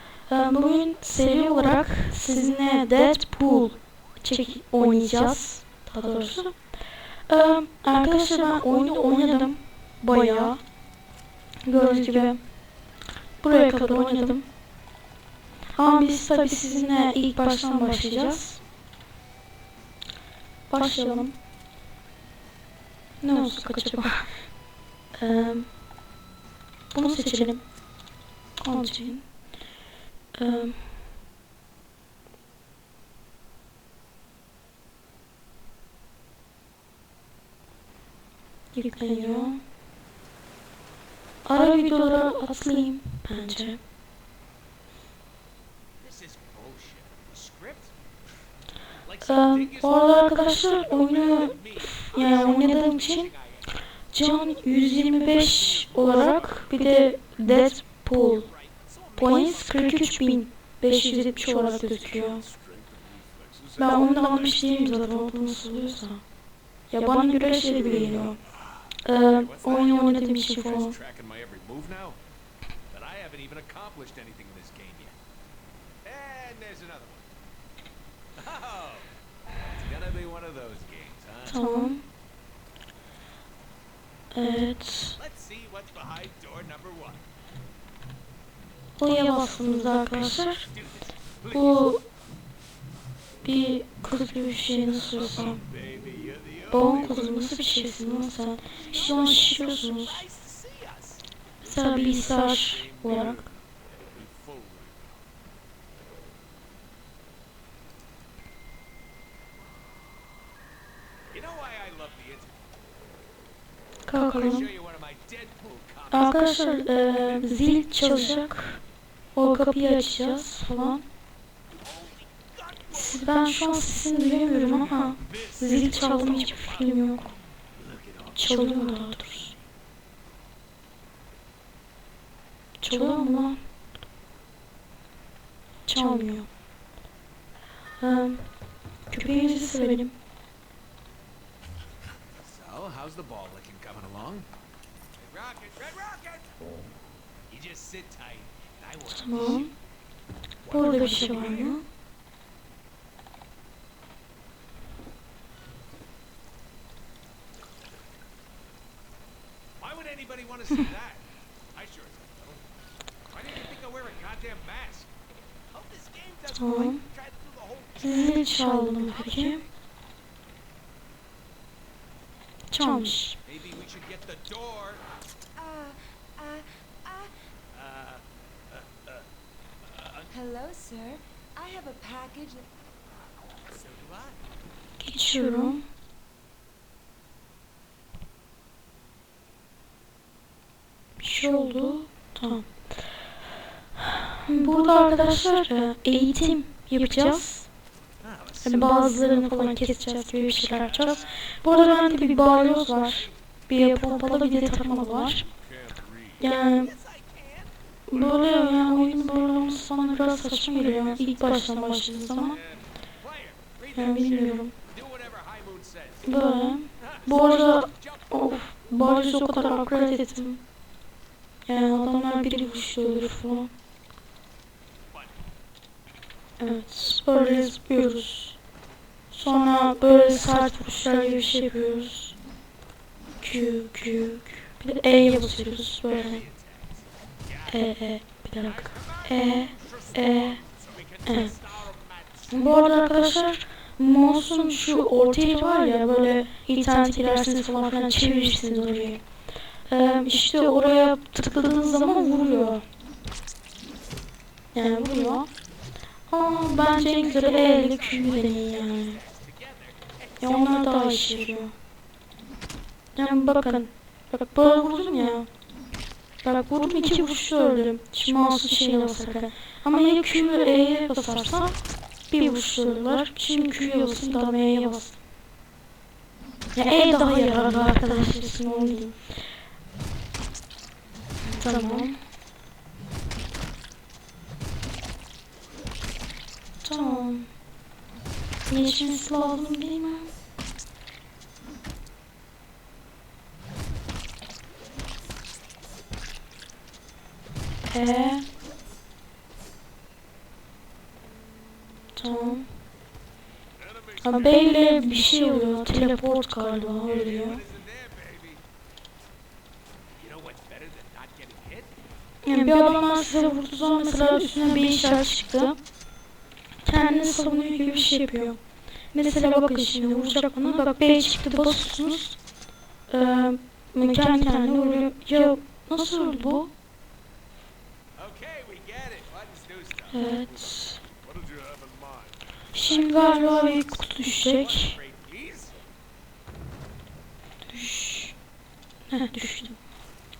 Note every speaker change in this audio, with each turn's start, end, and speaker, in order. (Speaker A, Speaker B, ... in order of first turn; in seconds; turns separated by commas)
Speaker A: 0.3-10.7, Speaker A: 11.7-12.6, Speaker A: 13.4-14.5, Speaker A: 15.7-18.6, Speaker A: 20.7-21.4, Speaker A: 23.2-24.6, Speaker A: 25.1-25.7, Speaker A: 26.9-27.8, Speaker A: 28.6-29.5, Speaker A: 30.3-30.9, Speaker A: 38.7-39.6, Speaker A: 41.4-43.8, Speaker B: 46.0-47.9, Speaker B: 49.1-53.7, Speaker A: 49.2-53.3, Speaker A: 54.1-58.5, Speaker B: 55.5-56.6, Speaker B: 58.3-59.5, Speaker A: 59.1-62.4, Speaker B: 62.3-63.8, Speaker A: 63.8-66.3, Speaker A: 66.8-68.4, Speaker A: 69.0-71.0, Speaker B: 69.3-72.2, Speaker B: 72.9-75.2, Speaker B: 76.0-77.3, Speaker B: 78.4-79.1, Speaker B: 79.7-81.7, Speaker A: 81.5-82.1, Speaker A: 84.3-85.2, Speaker B: 85.2-87.2, Speaker A: 89.0-90.7, Speaker B: 90.8-91.9, Speaker A: 91.5-92.0, Speaker A: 93.4-95.6, Speaker B: 95.1-97.4, Speaker A: 96.7-100.3, Speaker B: 99.1-103.5, Speaker A: 101.6-103.5, Speaker B: 104.1-105.1, Speaker B: 111.3-112.6, Speaker A: 114.1-114.7, Speaker B: 114.2-116.9, Speaker A: 116.1-118.8, Speaker A: 119.3-121.1, Speaker B: 121.8-123.0, Speaker A: 122.9-127.3, Speaker B: 125.0-126.8, Speaker B: 127.8-129.1, Speaker A: 128.4-129.5, Speaker A: 132.8-133.7, Speaker A: 135.8-136.5, Speaker A: 138.0-140.2, Speaker B: 142.4-144.5, Speaker B: 145.2-146.6, Speaker B: 147.5-149.7, Speaker A: 149.1-149.7, Speaker B: 150.7-151.8, Speaker A: 150.7-151.8, Speaker B: 159.8-162.6, Speaker B: 163.3-165.1, Speaker B: 165.7-168.4, Speaker A: 166.5-167.0, Speaker A: 168.0-169.6, Speaker B: 169.0-169.7, Speaker A: 172.7-173.4, Speaker B: 173.4-175.1, Speaker C: 175.6-177.4, Speaker B: 177.7-178.2, Speaker B: 178.7-179.2, Speaker B: 179.9-180.3, Speaker C: 180.3-182.7, Speaker B: 183.7-184.4, Speaker A: 185.0-185.9, Speaker A: 191.2-192.9, Speaker A: 194.3-197.7, Speaker B: 198.2-199.5, Speaker A: 198.6-205.5, Speaker B: 205.6-207.7, Speaker A: 206.4-206.9, Speaker A: 208.1-212.6, Speaker B: 212.5-216.4, Speaker A: 213.9-214.7, Speaker A: 216.2-220.7, Speaker B: 217.0-218.3, Speaker A: 221.7-223.7, Speaker A: 226.6-228.6, Speaker A: 229.3-232.4, Speaker A: 233.4-236.4, Speaker B: 236.1-237.8, Speaker A: 237.7-240.6, Speaker B: 238.6-242.7, Speaker A: 241.2-241.5, Speaker A: 242.5-252.9, Speaker A: 254.7-255.6, Speaker A: 256.3-259.2, Speaker B: 257.7-260.8, Speaker A: 260.4-261.8, Speaker A: 263.1-265.6, Speaker A: 266.4-275.2, Speaker A: 276.7-279.5, Speaker A: 281.4-282.2, Speaker A: 286.8-287.6, Speaker A: 288.7-290.3, Speaker A: 297.9-298.5, Speaker A: 302.1-302.8, Speaker B: 303.9-305.0, Speaker A: 304.2-307.6, Speaker B: 307.1-308.6, Speaker B: 310.2-311.9, Speaker A: 312.4-315.8, Speaker A: 316.8-322.4, Speaker A: 323.1-326.7, Speaker B: 328.2-330.7, Speaker A: 330.1-331.0, Speaker B: 331.3-335.9, Speaker A: 332.7-335.0, Speaker A: 337.7-338.4, Speaker A: 339.1-339.8